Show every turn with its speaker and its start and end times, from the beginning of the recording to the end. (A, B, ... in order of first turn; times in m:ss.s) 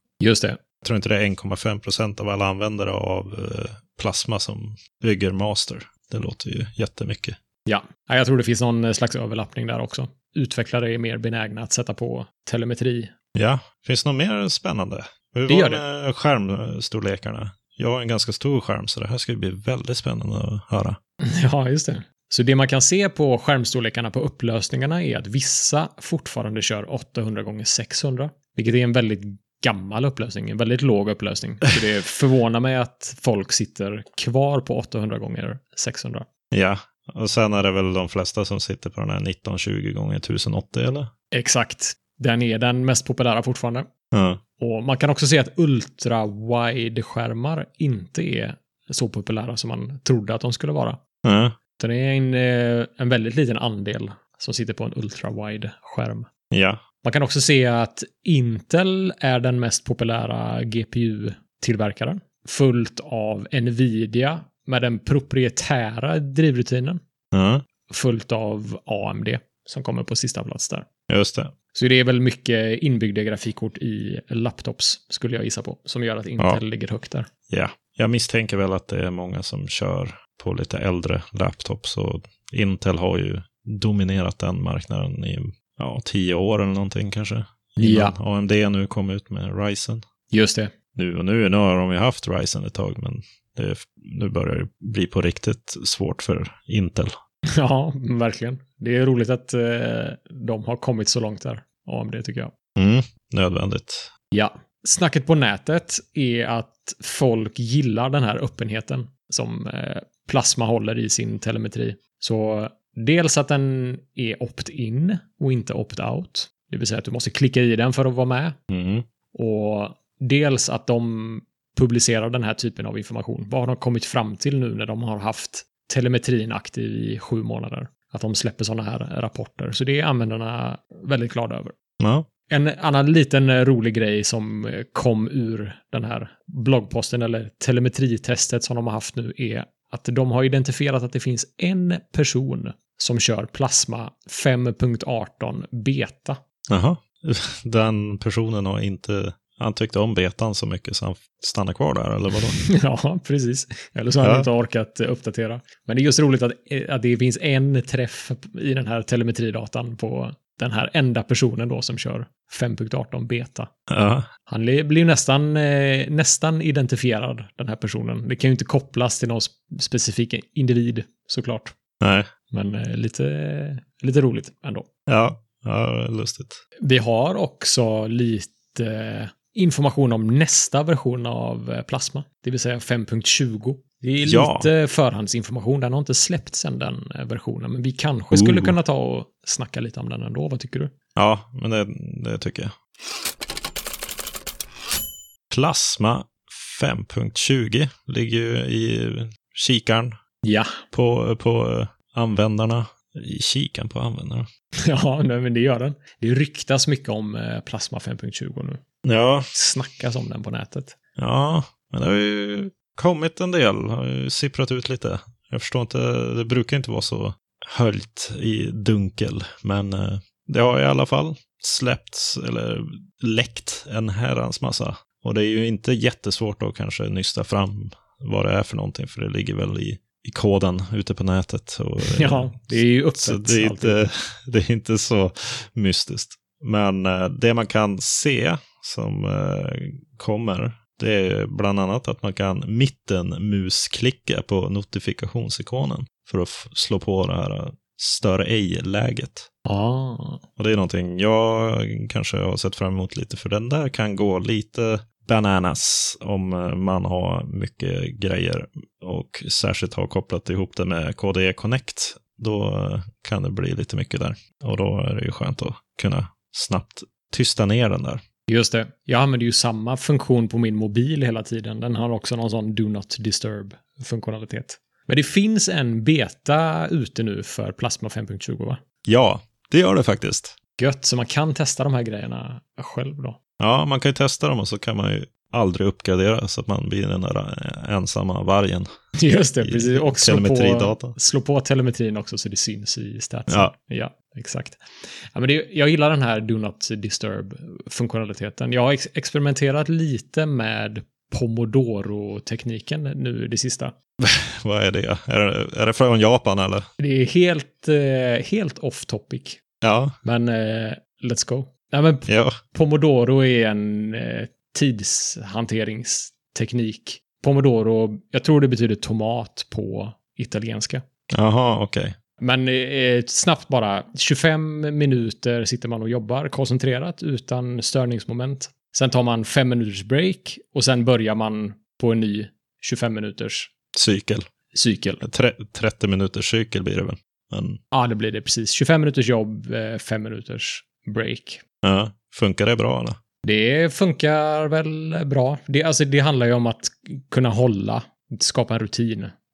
0:00.2-0:00.6 A
0:00.8-0:07.4 B
0:07.6-0:13.1 A
0:13.3-0:21.0 B
0:15.5-0:15.8 A
0:21.2-0:36.3 A
0:36.5-0:41.1 B
0:41.3-0:43.9 A
0:44.1-0:44.4 B
0:44.6-0:51.0 A
0:51.2-0:51.6 B
0:51.8-0:56.3 A
0:56.5-0:56.8 B
0:57.0-1:07.0 A
1:07.3-1:07.6 B
1:07.9-1:10.8 A
1:11.1-1:11.5 B
1:11.7-1:17.3 A
1:17.5-1:30.0 B
1:27.8-1:28.1 A
1:30.3-1:30.7 A
1:30.9-1:37.1 B
1:37.5-1:42.5 A
1:42.8-1:44.1 B
1:44.3-1:58.6 A
1:58.7-1:59.1 B
1:59.3-2:11.7 A
2:12.0-2:12.3 B
2:12.5-2:26.4 A
2:26.7-2:32.6 B
2:32.6-2:43.7 A
2:34.2-2:34.5 B
2:43.9-2:44.3 B
2:44.5-2:51.7 A
2:52.0-2:52.3 B
2:52.5-2:54.8 A
2:55.1-2:56.6 B
2:56.8-3:10.9 A
3:04.2-3:04.7 B
3:08.3-3:08.7 B
3:11.2-3:12.7 B
3:15.5-3:20.2 B
3:20.4-3:20.7 A
3:20.9-3:24.5 B
3:24.8-3:28.8 A
3:29.0-3:29.5 B
3:29.5-3:30.9 A
3:31.2-4:09.5 B
3:52.0-3:54.0 A
4:09.6-4:10.4 A
4:10.6-4:28.2 B
4:28.5-4:38.8 A
4:39.0-4:40.6 B
4:40.8-4:43.4 A
4:43.6-4:48.9 B
4:49.2-5:03.9 A
4:49.6-4:51.1 B
4:53.5-4:53.7 B
5:04.2-5:06.9 B
5:07.0-5:09.6 A
5:09.8-5:10.2 B
5:10.2-5:21.0 A
5:12.3-5:12.6 B
5:21.3-5:22.1 B
5:22.4-5:33.7 A
5:33.9-5:34.4 B
5:34.7-5:35.2 A
5:35.2-5:37.8 B
5:37.9-5:41.6 A
5:41.8-5:43.2 B
5:43.4-5:49.3 A